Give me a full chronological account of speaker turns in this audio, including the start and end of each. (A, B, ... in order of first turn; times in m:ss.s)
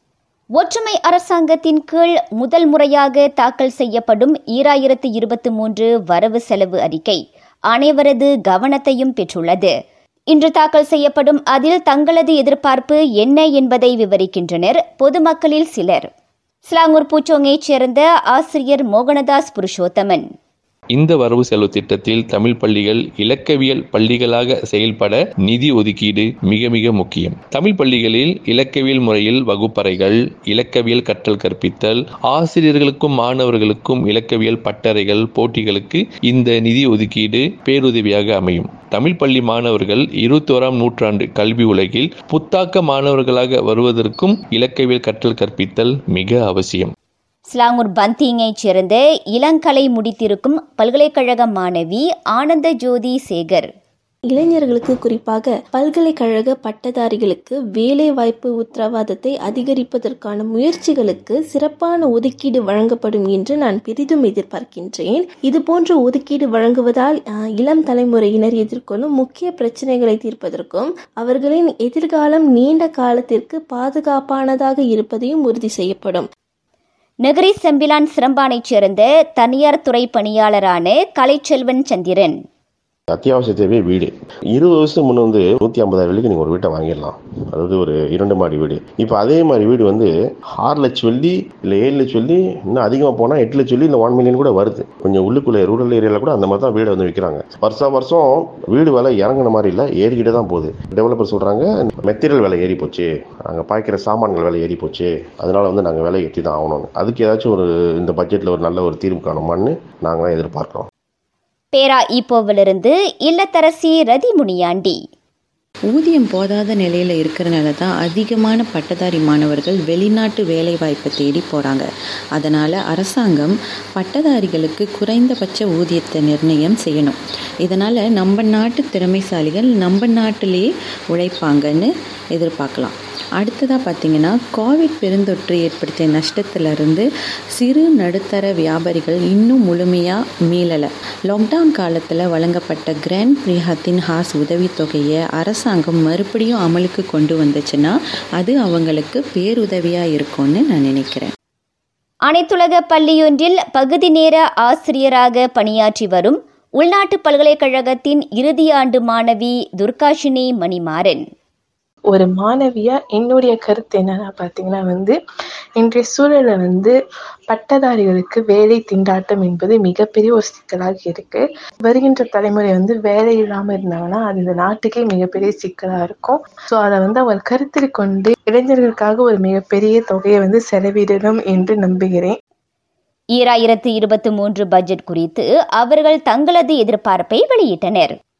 0:00.6-0:07.2 A
0:07.7-0:09.7 A
0:10.3-0:16.1 A
0:16.7-0:20.2 A
0:20.9-0:46.9 B
0:47.5-0:53.7 A
0:54.3-1:16.3 C
1:17.2-1:22.4 A
1:23.1-1:50.9 D
1:51.7-1:55.0 A
1:55.9-2:01.8 E
2:02.4-2:17.0 E
2:17.6-2:31.3 E
2:32.3-2:41.2 A
2:42.1-2:45.1 F
2:45.8-2:46.9 F
2:47.5-3:02.3 F
3:03.4-3:08.1 A